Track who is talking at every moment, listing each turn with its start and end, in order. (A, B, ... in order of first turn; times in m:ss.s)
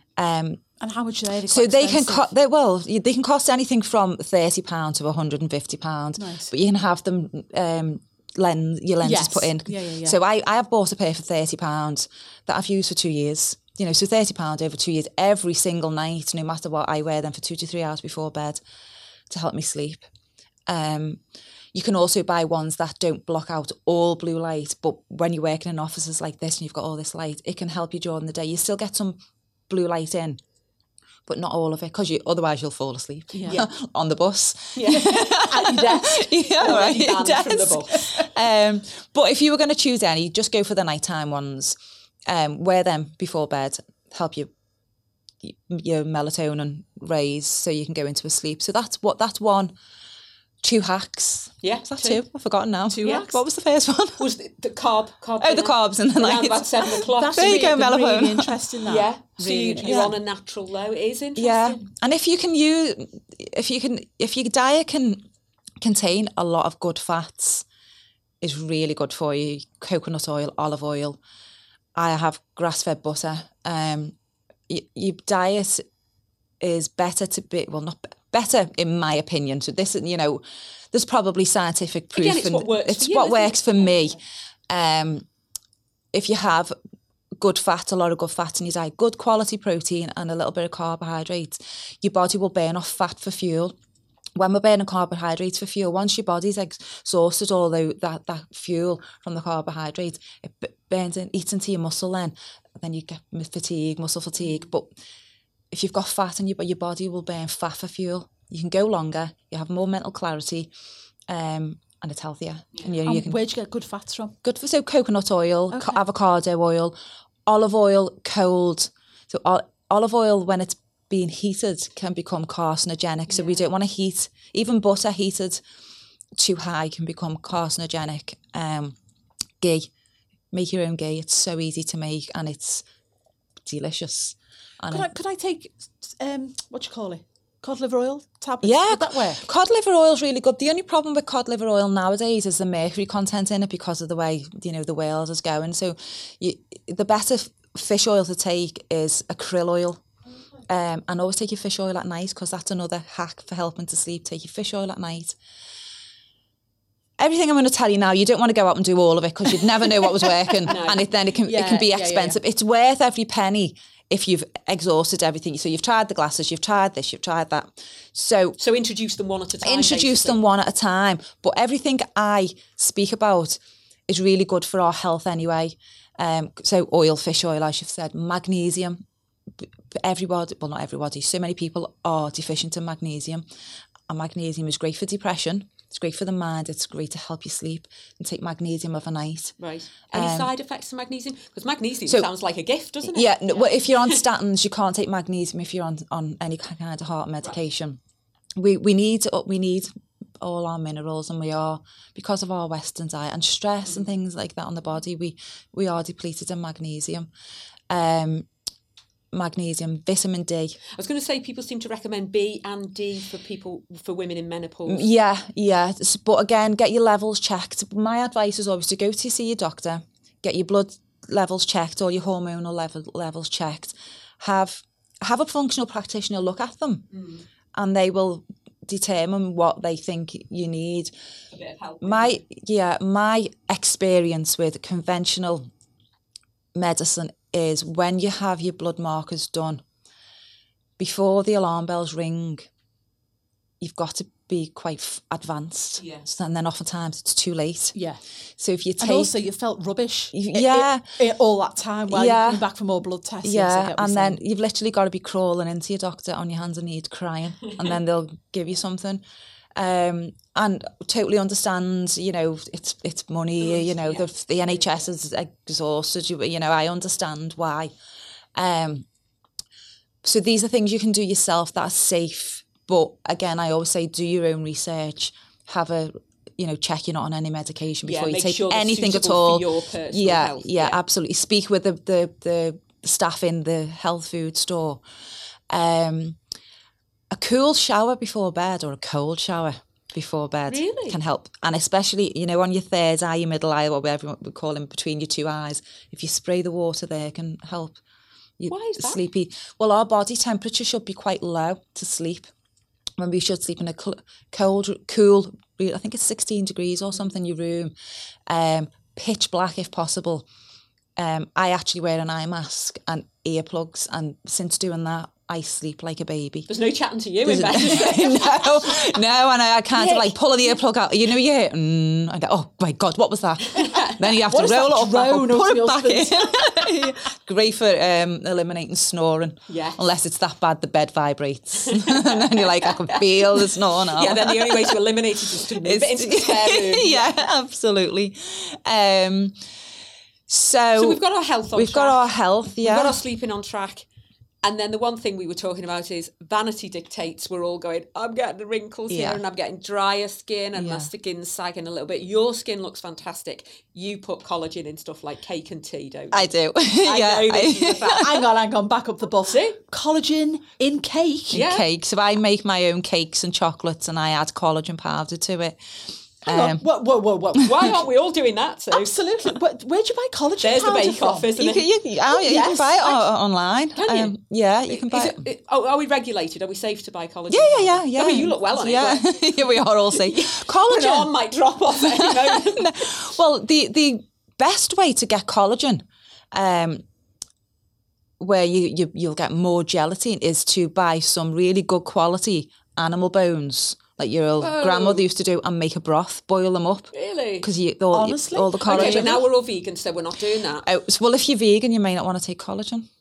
0:00.2-0:00.6 A
0:00.8-0:02.3 B
0:01.5-0:18.6 A
0:06.2-0:06.5 B
0:09.0-0:10.2 B
0:19.3-0:20.1 A
0:20.7-0:21.2 A
0:21.7-0:30.4 A
0:31.3-0:44.5 A
0:33.3-0:33.6 B
0:34.8-0:36.0 C
0:34.9-0:36.7 B
0:36.6-0:38.0 C
0:37.9-0:38.3 B
0:45.4-0:49.7 A
0:50.6-0:54.3 A
0:51.6-0:52.2 C
0:52.9-0:53.4 B
0:53.0-0:53.3 C
0:54.2-0:57.8 C
0:55.4-0:58.5 A
0:57.2-1:00.1 B
0:58.8-1:01.8 C
0:59.8-1:00.1 A
1:01.4-1:05.2 A
1:05.8-1:07.7 A
1:08.4-1:11.2 A
1:12.0-1:14.2 A
1:14.7-1:15.8 A
1:16.6-1:24.2 A
1:22.1-1:24.2 C
1:24.7-1:25.3 A
1:26.1-1:26.8 A
1:27.4-1:33.8 A
1:34.4-1:44.9 A
1:45.7-1:50.7 A
1:51.3-1:53.4 A
1:53.1-1:54.4 B
1:54.4-2:05.6 A
1:55.7-1:56.0 B
2:06.4-2:09.0 A
2:09.6-2:09.9 A
2:10.5-2:12.8 A
2:13.6-2:15.1 A
2:14.9-2:19.4 B
2:18.6-2:30.0 A
2:30.7-2:35.4 A
2:37.2-2:48.6 A
2:40.7-2:41.1 C
2:41.4-2:42.4 B
2:48.6-2:50.4 C
2:49.6-2:59.0 A
2:59.6-3:03.5 A
3:04.1-3:09.6 A
3:09.6-3:14.2 C
3:10.1-3:10.5 A
3:13.1-3:18.0 A
3:18.6-3:19.9 A
3:20.4-3:27.3 A
3:27.9-3:28.5 A
3:29.3-3:30.8 A
3:30.9-3:35.1 C
3:34.9-3:47.1 A
3:47.1-3:47.4 C
3:47.8-3:51.1 A
3:51.5-3:52.4 C
3:52.0-3:55.7 A
3:56.8-3:59.8 A
4:01.0-4:02.7 A
4:03.8-4:08.0 A
4:06.0-4:06.2 C
4:08.6-4:09.3 A
4:09.0-4:14.4 B
4:10.3-4:11.1 A
4:12.1-4:12.6 A
4:13.4-4:19.2 A
4:19.8-4:27.9 A
4:23.7-4:24.3 C
4:28.6-4:29.1 A
4:30.2-4:45.0 A
4:38.0-4:41.0 C
4:45.7-4:46.4 A
4:47.3-4:58.0 A
4:50.7-4:51.2 C
4:58.6-5:02.5 A
4:58.7-4:59.2 C
5:03.2-5:07.9 A
5:08.5-5:10.5 A
5:11.2-5:16.7 A
5:16.7-5:19.2 C
5:17.4-5:35.0 A
5:20.0-5:20.4 C
5:23.8-5:24.2 C
5:24.5-5:27.0 B
5:29.7-5:30.0 C
5:31.8-5:37.4 C
5:35.8-5:39.6 A
5:40.5-5:41.2 A
5:41.0-5:44.1 C
5:41.7-5:43.2 A
5:44.6-5:58.4 C
5:49.1-5:49.4 A
5:50.8-5:51.1 A
5:56.3-5:58.4 A
5:58.0-6:01.6 B
5:59.5-5:59.8 C
6:01.5-6:01.9 C
6:01.5-6:06.8 A
6:06.5-6:08.0 B
6:07.6-6:09.2 C
6:08.9-6:11.5 B
6:10.6-6:11.9 C
6:11.6-6:15.4 A
6:12.3-6:13.2 B
6:14.0-6:14.3 C
6:14.9-6:23.2 C
6:17.5-6:21.3 A
6:22.0-6:27.0 A
6:28.4-6:39.4 A
6:34.6-6:35.3 C
6:37.1-6:37.7 C
6:38.1-6:39.4 B
6:38.8-6:40.9 C
6:40.8-6:43.1 A